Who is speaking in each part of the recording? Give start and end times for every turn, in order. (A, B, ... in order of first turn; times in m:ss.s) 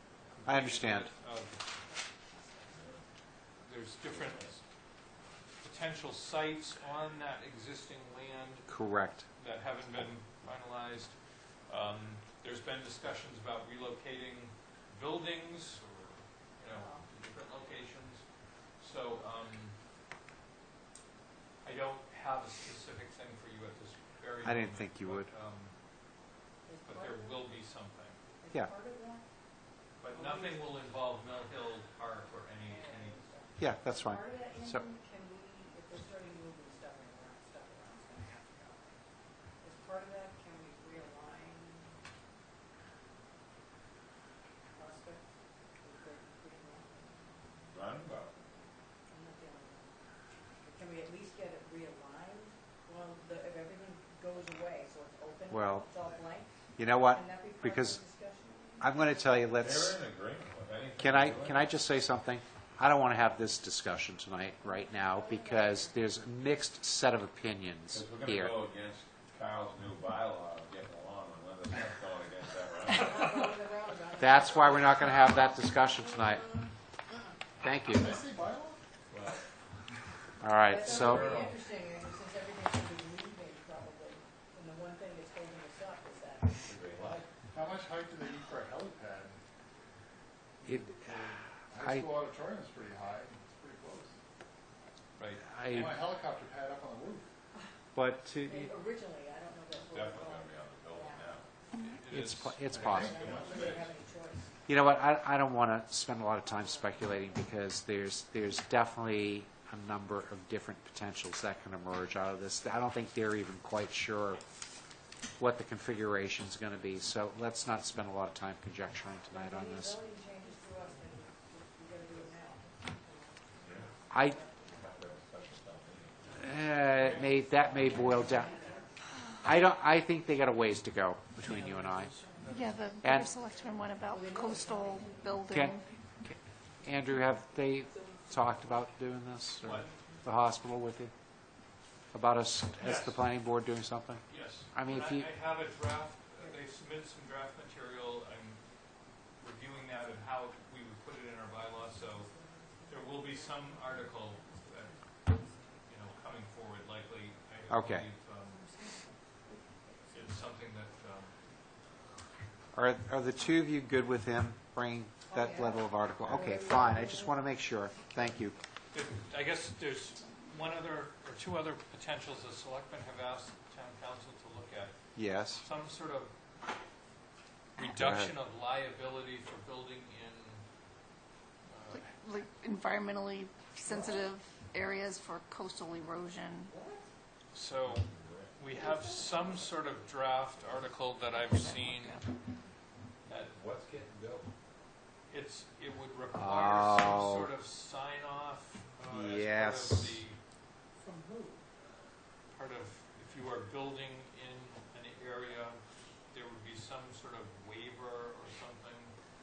0:00.3-0:01.7 A
0:00.4-0:01.1 B
0:02.4-0:02.7 C
0:03.6-0:04.6 A
0:05.6-0:08.7 A
0:08.7-0:09.3 B
0:09.4-0:15.9 A
0:16.6-0:19.8 A
0:16.7-0:17.1 C
0:21.6-0:25.8 A
0:24.4-0:25.3 B
0:26.6-0:27.5 C
0:26.8-0:28.2 A
0:28.4-0:29.3 C
0:30.0-0:33.2 A
0:30.1-0:30.7 C
0:32.6-0:39.0 C
0:33.6-0:34.8 B
0:39.6-0:42.0 C
0:44.8-0:45.2 C
0:45.8-0:50.0 C
0:47.7-0:48.4 D
0:50.6-0:56.6 C
0:55.5-0:55.9 B
0:56.8-0:58.0 B
0:57.1-0:59.0 C
0:58.8-1:00.0 B
0:59.6-1:01.6 D
1:01.0-1:08.5 B
1:04.6-1:06.0 C
1:07.9-1:13.4 D
1:12.9-1:15.5 C
1:14.2-1:16.6 B
1:17.6-1:18.2 B
1:17.9-1:18.8 E
1:19.1-1:19.4 D
1:20.4-1:21.5 B
1:20.6-1:26.7 C
1:20.8-1:21.6 D
1:26.6-1:27.2 D
1:27.1-1:29.4 E
1:30.6-1:34.2 E
1:30.7-1:31.1 B
1:31.8-1:32.1 B
1:35.2-1:35.5 A
1:35.5-1:35.9 B
1:35.7-1:37.3 E
1:38.0-1:38.7 B
1:38.4-1:41.4 C
1:39.9-1:41.5 D
1:41.8-1:43.1 A
1:42.1-1:43.2 B
1:42.7-1:43.8 E
1:42.9-1:44.6 C
1:43.2-1:43.8 D
1:44.7-1:54.4 B
1:46.5-1:47.5 C
1:55.4-2:00.0 B
1:59.3-2:04.9 C
2:03.6-2:03.9 D
2:04.1-2:04.4 B
2:04.6-2:08.5 D
2:06.3-2:08.6 B
2:06.9-2:09.0 C
2:09.4-2:12.1 B
2:11.4-2:13.0 A
2:12.5-2:15.9 F
2:13.0-2:13.3 B
2:14.1-2:15.8 C
2:15.5-2:21.1 B
2:17.9-2:18.3 C
2:19.6-2:20.0 A
2:22.1-2:25.3 B
2:22.8-2:23.2 A
2:24.3-2:32.3 A
2:31.9-2:35.9 C
2:32.8-2:35.1 A
2:35.8-2:38.6 A
2:37.7-2:38.1 B
2:38.4-2:40.1 C
2:40.1-2:41.4 A
2:42.7-2:48.6 B
2:45.3-2:47.4 C
2:48.9-2:55.0 A
2:55.2-2:55.6 B
2:55.6-2:56.3 A
2:57.8-3:00.6 A
2:57.8-2:58.3 B
3:01.7-3:02.1 A
3:01.9-3:06.7 F
3:06.7-3:07.0 C
3:07.5-3:12.3 A
3:07.9-3:08.6 D
3:11.6-3:12.2 F
3:13.3-3:13.5 A
3:13.5-3:14.5 D
3:15.3-3:20.4 A
3:16.3-3:17.5 B
3:19.1-3:20.2 B
3:21.0-3:21.6 C
3:22.5-3:29.1 A